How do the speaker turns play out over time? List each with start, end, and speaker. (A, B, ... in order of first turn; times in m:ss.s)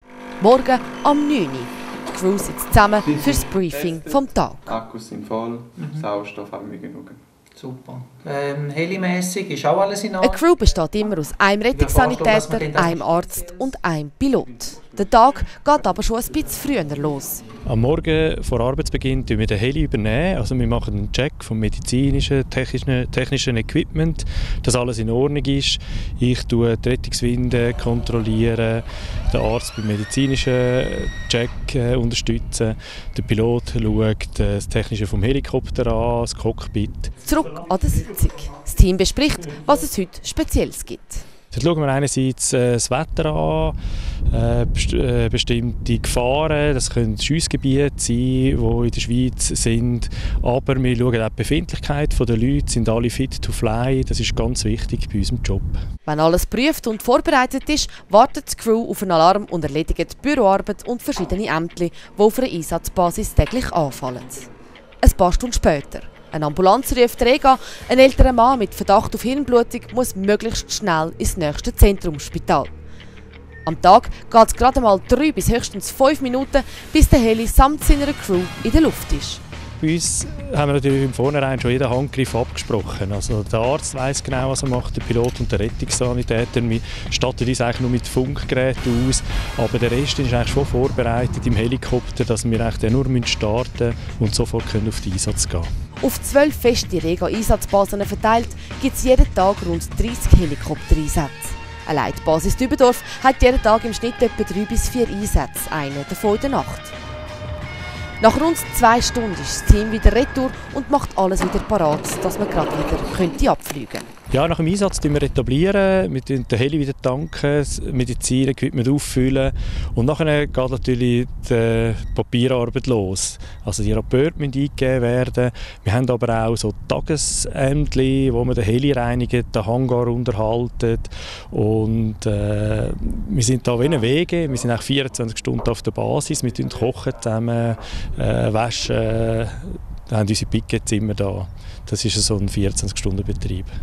0:00.4-0:04.7 A
0:03.1-0:07.2 B
0:05.8-0:06.1 C
0:07.6-0:10.4 C
0:10.2-0:17.4 A
0:11.7-0:13.0 C
0:17.6-0:37.2 D
0:37.2-0:41.2 A
0:41.5-0:43.7 D
0:44.3-0:55.8 D
0:56.0-1:04.4 A
1:05.0-1:12.7 A
1:13.6-1:19.4 A
1:19.8-1:35.7 D
1:36.0-1:46.9 A
1:48.2-1:54.1 A
1:54.3-2:23.7 D